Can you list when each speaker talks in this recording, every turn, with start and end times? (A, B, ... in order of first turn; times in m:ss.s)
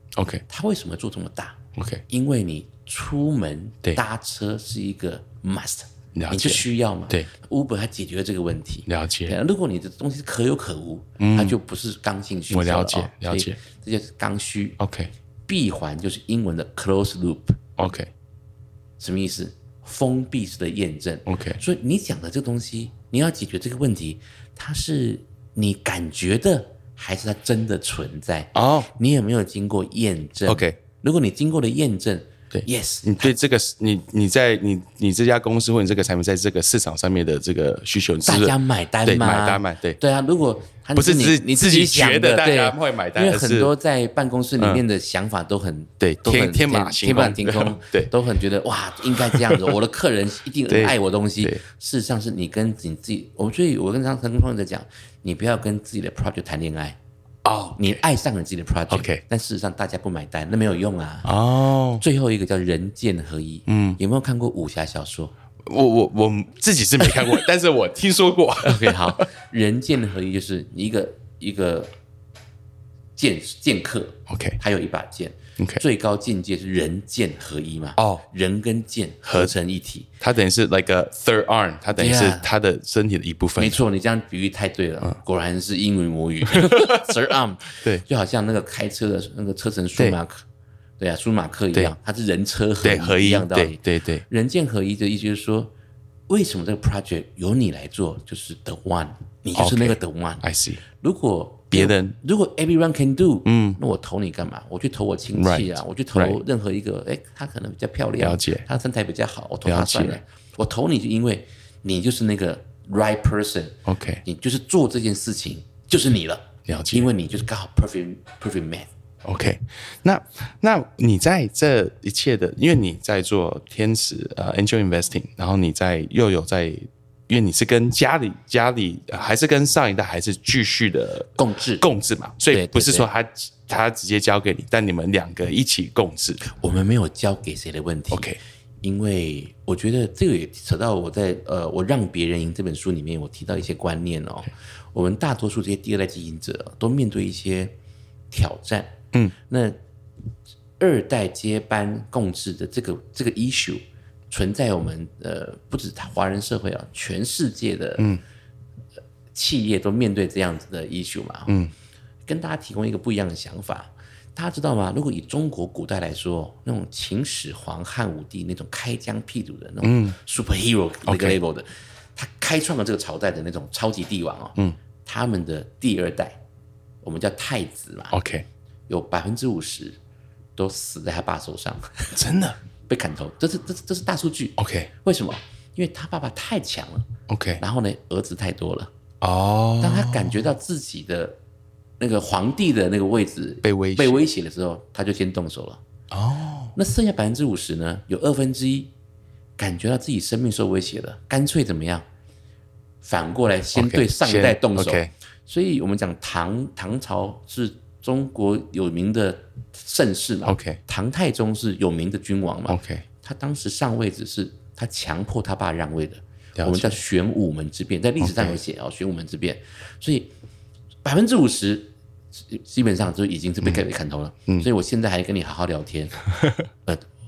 0:00.2-0:00.4 A
0:00.5-0:14.8 B
0:01.8-0:02.0 A
0:06.2-0:07.3 A
0:08.9-0:09.4 A
0:11.2-0:11.6 A
0:12.5-0:13.6 A
0:14.8-0:15.1 A
0:15.5-0:17.6 B
0:17.8-0:18.1 A
0:19.0-0:33.3 B
0:21.3-0:21.6 A
0:28.6-0:28.9 A
0:30.5-0:30.8 A
0:32.5-0:40.0 A
0:38.2-0:57.0 B
0:41.0-0:43.7 A
0:46.0-0:48.1 A
0:49.2-0:49.7 A
0:50.7-0:51.6 A
0:57.4-0:58.0 A
0:57.8-1:01.3 B
0:58.9-0:59.2 A
1:01.2-1:02.0 A
1:02.0-1:05.3 B
1:03.7-1:04.0 A
1:05.7-1:09.3 A
1:07.0-1:07.4 B
1:08.6-1:11.9 B
1:13.2-1:20.1 B
1:14.3-1:14.6 A
1:18.0-1:18.2 A
1:19.3-1:19.5 A
1:20.2-1:23.8 A
1:22.0-1:22.5 B
1:23.6-1:30.4 B
1:26.5-1:27.2 A
1:31.0-1:35.7 B
1:32.8-1:34.2 A
1:36.3-1:58.9 B
1:39.6-1:40.8 A
1:41.7-1:42.2 A
1:43.5-1:43.8 A
1:45.4-1:46.4 A
1:48.2-1:48.7 A
1:49.7-1:50.2 A
1:53.9-1:54.2 A
1:56.7-1:57.1 A
1:59.2-2:16.4 A
2:11.4-2:11.8 B
2:12.5-2:13.1 B
2:16.4-2:18.3 B
2:18.1-2:18.4 A
2:18.8-2:27.7 B
2:28.3-2:29.8 B
2:30.8-2:38.1 B
2:39.3-2:41.5 B
2:42.3-2:56.4 B
2:49.8-2:50.2 A
2:51.1-2:51.4 A
2:57.0-2:58.2 B
2:58.1-2:58.5 A
2:58.9-3:00.0 B
3:00.6-3:02.2 B
3:02.1-3:02.6 A
3:02.9-3:07.1 B
3:04.6-3:04.9 A
3:07.3-3:07.6 A
3:07.6-3:08.9 B
3:09.2-3:10.5 A
3:09.8-3:11.4 B
3:12.0-3:15.8 B
3:13.6-3:14.2 A
3:16.1-3:16.7 A
3:16.8-3:18.9 B
3:19.6-3:22.0 B
3:23.0-3:40.3 B
3:23.8-3:25.1 A
3:30.4-3:30.8 A
3:32.7-3:33.0 A
3:36.6-3:37.0 A
3:38.2-3:38.6 A
3:41.0-3:46.2 B
3:46.3-3:46.7 A